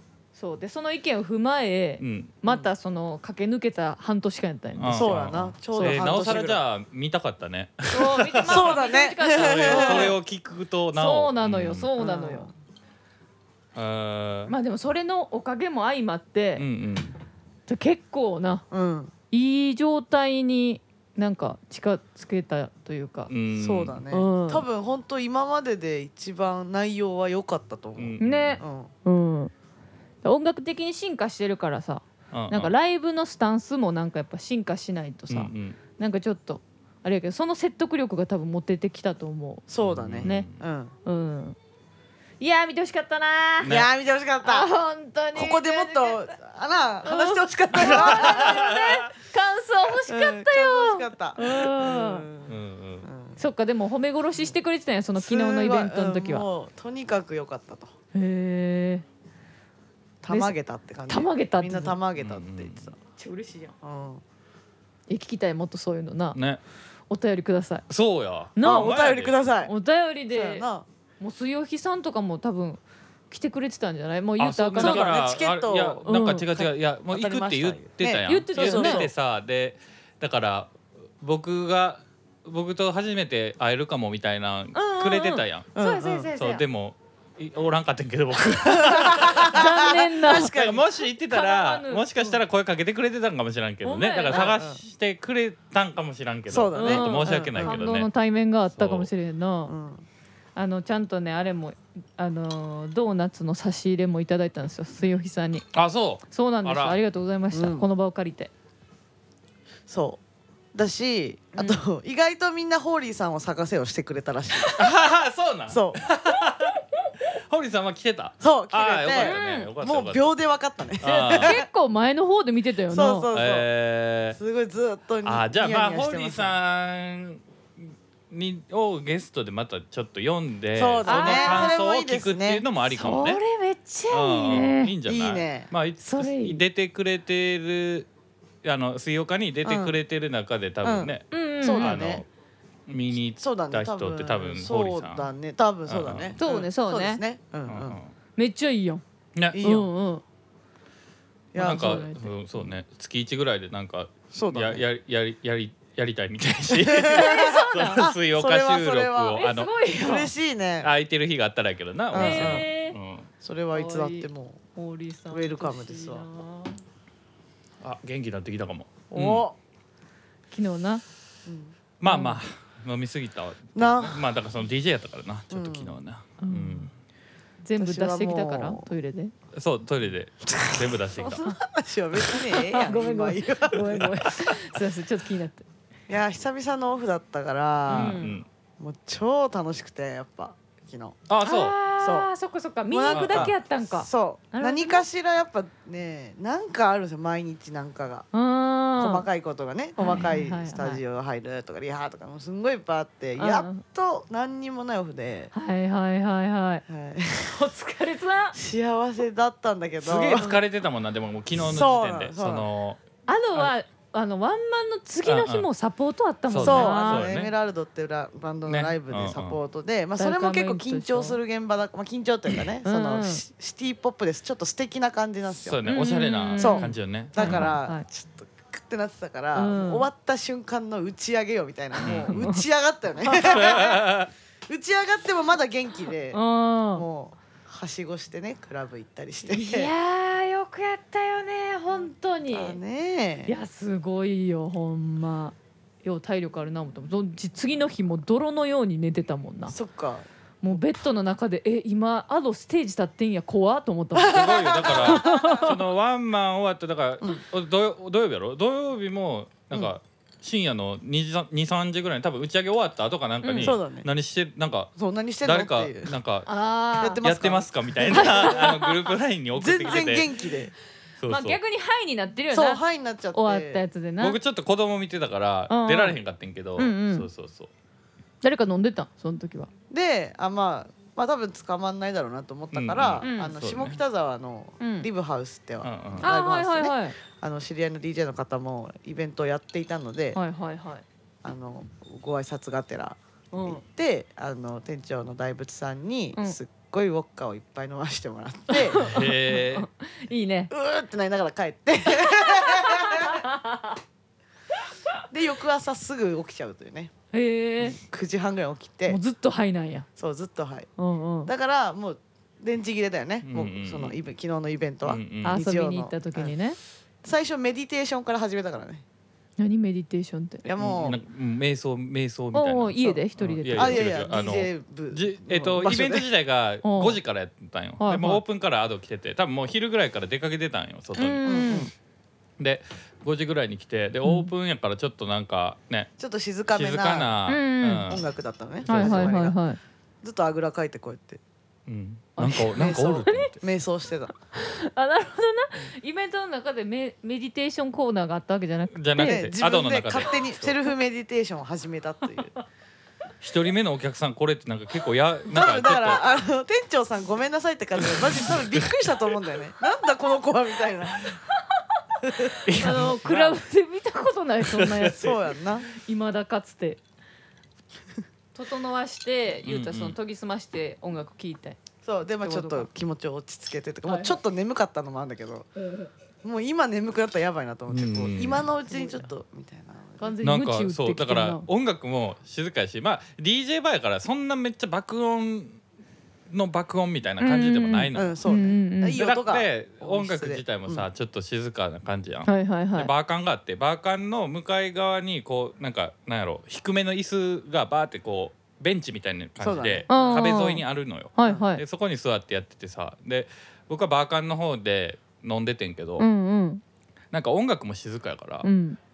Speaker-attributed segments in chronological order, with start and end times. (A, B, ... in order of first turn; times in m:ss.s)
0:00.3-0:05.2 A
0:02.0-0:02.3 B
0:04.8-0:08.8 B
0:04.9-0:06.6 C
0:05.7-0:06.4 A
0:07.9-0:10.2 A
0:08.4-0:10.2 C
0:09.3-0:11.9 B
0:10.9-0:12.5 A
0:12.0-0:12.5 C
0:13.7-0:14.5 B
0:14.5-0:16.6 A
0:16.6-0:17.1 B
0:17.7-0:18.6 A
0:18.7-0:19.1 C
0:19.3-0:23.3 A
0:23.3-0:24.0 B
0:23.6-0:28.9 C
0:24.1-0:24.6 A
0:28.0-0:28.6 B
0:28.2-0:29.5 A
0:30.2-0:39.7 A
0:32.3-0:32.7 B
0:35.3-0:35.8 B
0:39.7-0:40.9 C
0:39.8-0:40.6 B
0:41.0-0:41.6 A
0:42.4-0:43.7 A
0:43.6-0:43.9 B
0:43.6-0:44.7 C
0:44.4-0:46.3 A
0:45.3-0:48.6 C
0:47.0-0:52.3 A
0:47.8-0:49.1 B
0:50.1-0:53.4 C
0:52.5-0:53.1 B
0:53.4-0:56.4 A
0:55.2-0:57.9 C
0:58.1-0:59.0 A
1:00.2-1:02.9 C
1:00.3-1:00.5 A
1:01.1-1:02.0 A
1:02.2-1:02.9 B
1:03.1-1:03.7 A
1:03.8-1:04.2 C
1:05.1-1:06.4 A
1:06.3-1:06.6 B
1:07.1-1:07.8 A
1:07.9-1:09.4 B
1:08.5-1:09.0 A
1:08.6-1:09.7 C
1:09.6-1:10.6 A
1:10.3-1:10.8 C
1:11.2-1:15.2 A
1:14.4-1:25.7 B
1:14.8-1:19.1 C
1:16.0-1:16.5 A
1:18.2-1:19.0 A
1:24.7-1:26.6 A
1:25.7-1:26.3 C
1:26.3-1:38.1 B
1:28.6-1:30.9 C
1:29.5-1:30.5 A
1:31.3-1:32.4 A
1:33.8-1:34.6 A
1:34.3-1:34.8 C
1:36.5-1:37.8 C
1:36.8-1:39.7 A
1:38.7-1:39.1 B
1:39.7-1:40.0 C
1:40.6-1:45.6 A
1:45.7-1:47.0 B
1:46.3-1:48.5 A
1:47.5-1:47.8 C
1:49.9-1:50.2 C
1:50.7-1:54.8 C
1:54.8-2:00.3 B
1:55.7-1:56.0 C
1:58.4-2:01.6 C
1:59.2-1:59.7 A
2:01.0-2:01.6 B
2:01.0-2:03.3 A
2:02.9-2:03.7 C
2:03.3-2:04.4 B
2:04.3-2:06.5 C
2:05.2-2:13.4 B
2:10.8-2:13.3 C
2:11.0-2:11.8 A
2:13.0-2:14.9 A
2:14.1-2:18.1 B
2:15.0-2:15.7 C
2:16.0-2:16.6 A
2:18.6-2:21.2 B
2:19.6-2:20.0 C
2:20.8-2:22.2 C
2:21.3-2:22.0 A
2:21.8-2:22.2 B
2:22.9-2:25.3 B
2:23.4-2:28.0 C
2:25.9-2:26.4 B
2:26.4-2:27.2 A
2:27.7-2:28.1 B
2:28.4-2:29.0 A
2:29.3-2:29.6 B
2:29.5-2:29.9 C
2:29.6-2:30.2 A
2:31.5-2:32.1 C
2:31.6-2:32.3 A
2:31.6-2:39.7 B
2:34.3-2:34.8 C
2:36.8-2:40.9 C
2:37.1-2:38.0 A
2:39.3-2:40.3 A
2:40.8-2:43.3 B
2:42.1-2:42.7 C
2:42.1-2:43.0 A
2:43.4-2:44.6 C
2:43.7-2:46.8 A
2:45.3-2:46.2 C
2:47.8-2:49.4 B
2:49.1-2:49.6 C
2:50.5-2:51.0 A
2:51.4-2:51.7 C
2:52.0-2:56.9 B
2:52.0-2:52.4 A
2:53.7-2:54.2 C
2:55.5-2:56.0 C
2:56.4-2:56.9 A
2:57.6-2:59.3 A
2:57.8-2:58.9 C
2:59.5-3:01.5 B
3:00.4-3:04.4 C
3:02.3-3:05.6 A
3:06.1-3:08.2 C
3:07.9-3:08.4 B
3:07.9-3:08.4 A
3:08.8-3:11.2 C
3:11.3-3:11.8 B
3:11.4-3:15.0 A
3:12.0-3:12.3 C
3:12.9-3:18.3 C
3:13.1-3:13.5 B
3:18.3-3:19.2 A
3:19.0-3:25.5 C
3:20.0-3:21.0 A
3:23.4-3:23.8 A
3:25.5-3:26.8 A
3:26.9-3:27.6 C
3:27.4-3:28.6 A
3:28.5-3:30.5 C
3:30.0-3:33.0 B
3:31.6-3:32.7 C
3:33.2-3:37.3 A
3:35.2-3:35.7 B
3:36.5-3:37.5 B
3:36.6-3:45.8 C
3:38.7-3:39.6 B
3:40.2-3:41.4 A
3:42.8-3:43.4 A
3:45.6-3:47.7 B
3:45.8-3:48.0 A
3:46.6-3:54.1 C
3:49.5-3:50.1 A
3:52.0-3:52.6 A
3:52.0-3:52.4 B
3:53.2-3:54.0 A
3:53.5-3:54.3 B
3:54.7-3:56.4 C
3:56.3-3:57.0 A
3:56.9-3:59.9 C
3:59.5-4:02.8 A
4:02.0-4:03.5 C
4:03.5-4:09.7 A
4:09.7-4:10.8 C
4:10.6-4:15.8 A
4:14.2-4:15.7 C
4:14.2-4:24.9 B
4:23.4-4:23.8 A
4:23.6-4:24.1 C
4:25.0-4:26.1 C
4:25.4-4:26.5 B
4:26.4-4:27.2 A
4:27.0-4:28.8 C
4:27.2-4:30.3 B
4:28.1-4:28.9 A
4:29.5-4:30.7 C
4:31.2-4:31.6 B
4:31.3-4:32.8 A
4:32.5-4:33.8 C
4:33.3-4:34.4 A
4:34.2-4:37.7 B
4:35.7-4:36.2 A
4:36.8-4:37.3 A
4:38.4-4:39.7 A
4:39.9-4:50.4 C
4:42.7-4:44.0 B
4:43.2-4:43.5 A
4:44.8-4:45.1 A
4:45.8-4:46.3 B
4:46.2-4:47.1 A
4:50.3-4:51.0 A
4:51.4-4:59.2 C
4:53.5-4:53.8 A
4:58.7-5:00.7 A
4:58.9-4:59.9 B
5:00.7-5:03.4 C
5:02.2-5:04.0 A
5:05.3-5:07.1 C
5:07.3-5:08.0 A
5:07.8-5:09.2 C
5:09.1-5:10.0 A
5:10.2-5:10.9 C
5:11.0-5:11.5 A
5:11.4-5:16.5 C
5:13.4-5:14.2 B
5:15.0-5:15.6 B
5:15.4-5:16.8 A
5:17.2-5:19.0 C
5:19.6-5:20.6 A
5:20.6-5:21.2 C
5:20.8-5:31.8 B
5:22.5-5:24.3 A
5:23.7-5:26.3 C
5:26.8-5:27.2 A
5:28.0-5:28.4 A
5:31.1-5:31.9 A
5:31.4-5:31.9 C
5:32.6-5:36.1 B
5:34.2-5:34.5 A
5:36.2-5:37.3 C
5:36.7-5:38.2 B
5:37.5-5:38.2 A
5:38.1-5:39.6 C
5:38.8-5:39.4 B
5:38.9-5:39.8 A
5:40.2-5:41.4 C
5:41.9-5:43.6 B
5:42.4-5:43.5 A
5:42.6-5:44.3 C
5:44.5-5:49.5 A
5:48.9-5:50.8 B
5:49.2-5:52.5 C
5:53.4-5:56.3 B
5:55.5-6:01.3 C
5:58.0-5:59.1 B
6:02.2-6:02.9 C
6:02.6-6:03.6 B
6:02.7-6:05.4 A
6:04.6-6:05.3 B
6:05.1-6:05.9 C
6:06.0-6:07.0 A
6:08.5-6:11.8 A
6:09.6-6:10.2 B
6:12.0-6:15.7 C
6:12.4-6:12.9 A
6:14.1-6:14.4 A
6:16.4-6:20.4 C
6:17.9-6:18.6 B
6:18.9-6:19.3 A
6:20.2-6:21.7 A
6:20.4-6:25.8 B
6:26.5-6:28.4 B
6:27.4-6:29.2 A
6:28.1-6:31.1 C
6:29.2-6:46.3 B
6:32.4-6:33.1 A
6:39.6-6:40.5 C
6:40.1-6:40.8 A
6:41.4-6:41.8 A
6:46.2-6:46.8 A
6:47.3-6:48.7 B
6:48.6-6:49.0 A